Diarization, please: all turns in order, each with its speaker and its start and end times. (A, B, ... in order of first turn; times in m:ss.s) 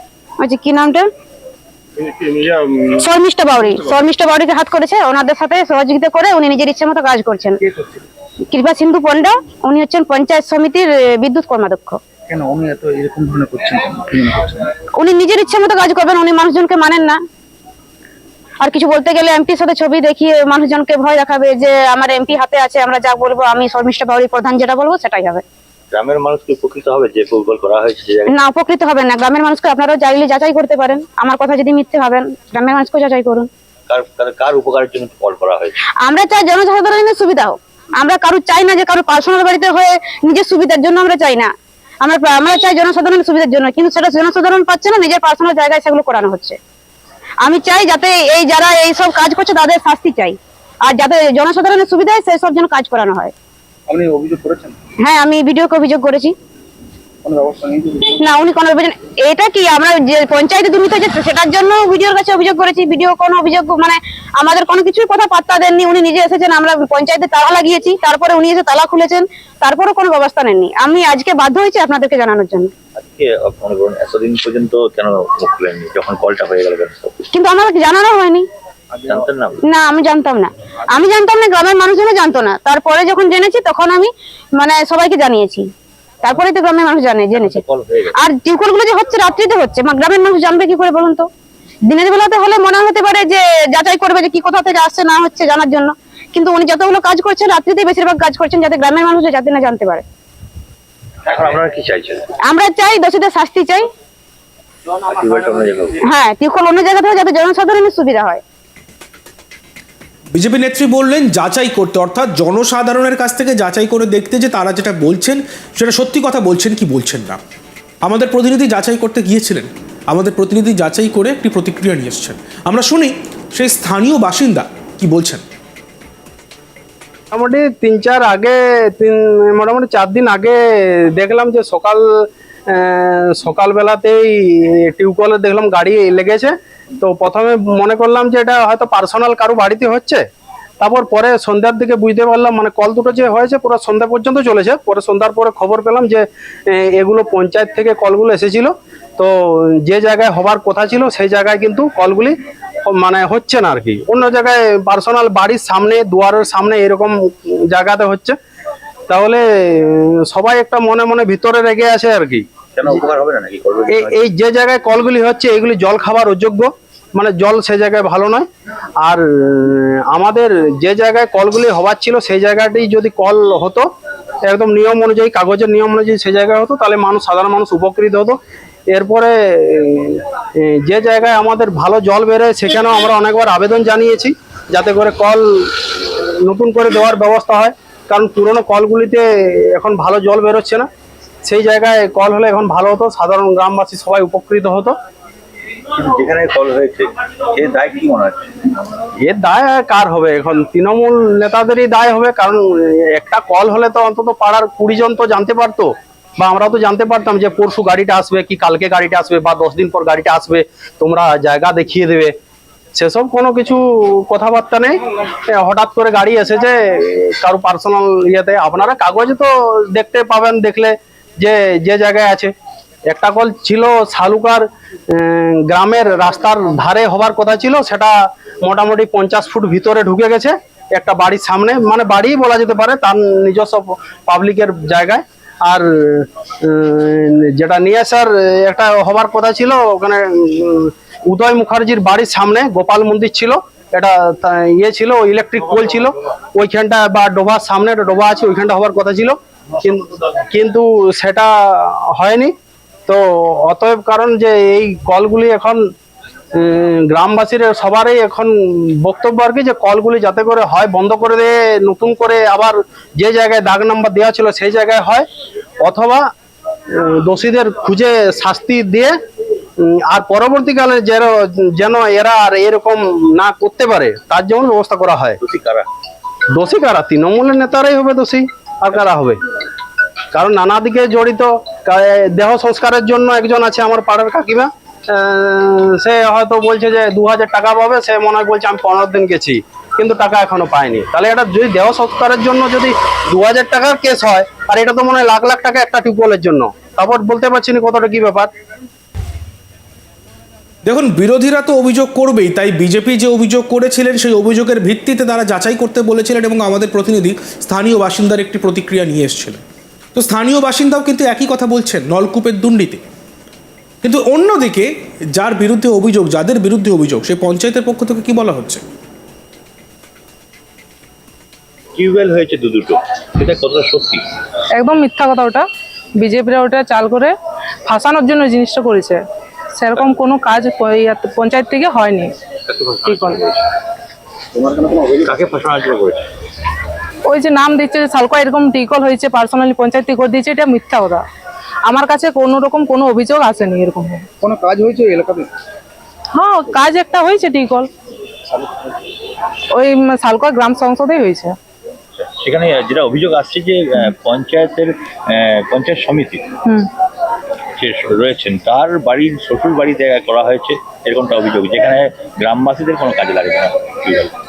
0:00.4-0:01.1 A
0:02.9-0:07.6 A
0:07.6-0:08.0 B
0:08.5-0:12.0 A
0:12.3-0:14.8 B
0:14.9-0:17.2 A
0:18.6-0:25.4 A
0:25.9-0:28.3 C
0:28.3-0:33.5 A
0:33.9-0:35.8 C
0:36.0-0:41.5 A
0:42.0-0:46.6 A
0:47.4-0:53.3 A
0:53.9-0:54.8 B
0:55.0-0:56.3 A
0:57.2-0:58.2 B
0:58.2-1:12.7 A
1:13.0-1:17.1 C
1:17.3-1:18.4 A
1:18.9-1:19.6 C
1:19.6-1:25.6 A
1:26.2-1:31.3 A
1:27.3-1:28.2 C
1:31.9-1:40.0 A
1:41.2-1:42.2 C
1:42.4-1:43.8 A
1:45.0-1:46.0 C
1:46.0-1:48.4 A
1:50.3-1:57.4 D
1:58.0-2:05.4 D
2:07.3-2:20.2 E
2:20.8-2:38.4 E
2:39.1-2:42.4 E
2:42.7-2:44.2 C
2:43.9-2:48.4 E
2:49.0-2:53.9 E
2:54.4-2:58.4 E
2:58.9-3:10.9 E
3:11.4-3:14.9 E
3:15.9-3:18.7 C
3:19.2-3:32.3 E
3:32.9-3:42.5 E
3:43.1-4:12.5 E
4:13.1-4:15.8 E
4:16.6-4:25.2 E
4:25.8-4:26.2 E
4:26.9-4:29.2 E
4:29.8-4:35.4 E
4:35.4-4:35.9 C
4:36.5-4:39.4 E
4:40.3-4:58.5 E
5:00.8-5:09.6 D
5:10.1-5:13.0 D
5:14.0-5:18.8 D
5:21.9-5:24.2 C
5:24.8-5:25.6 F
5:26.2-5:27.3 F
5:27.9-5:29.2 F
5:29.8-5:32.3 F
5:32.7-5:33.6 C
5:33.0-5:33.4 F
5:34.5-5:35.4 B
5:35.2-5:36.2 C
5:37.2-5:41.2 F
5:41.8-5:44.2 F
5:44.4-5:45.5 B
5:46.3-5:47.9 F
5:49.7-5:51.5 F
5:52.1-5:56.5 C
5:57.8-6:04.3 C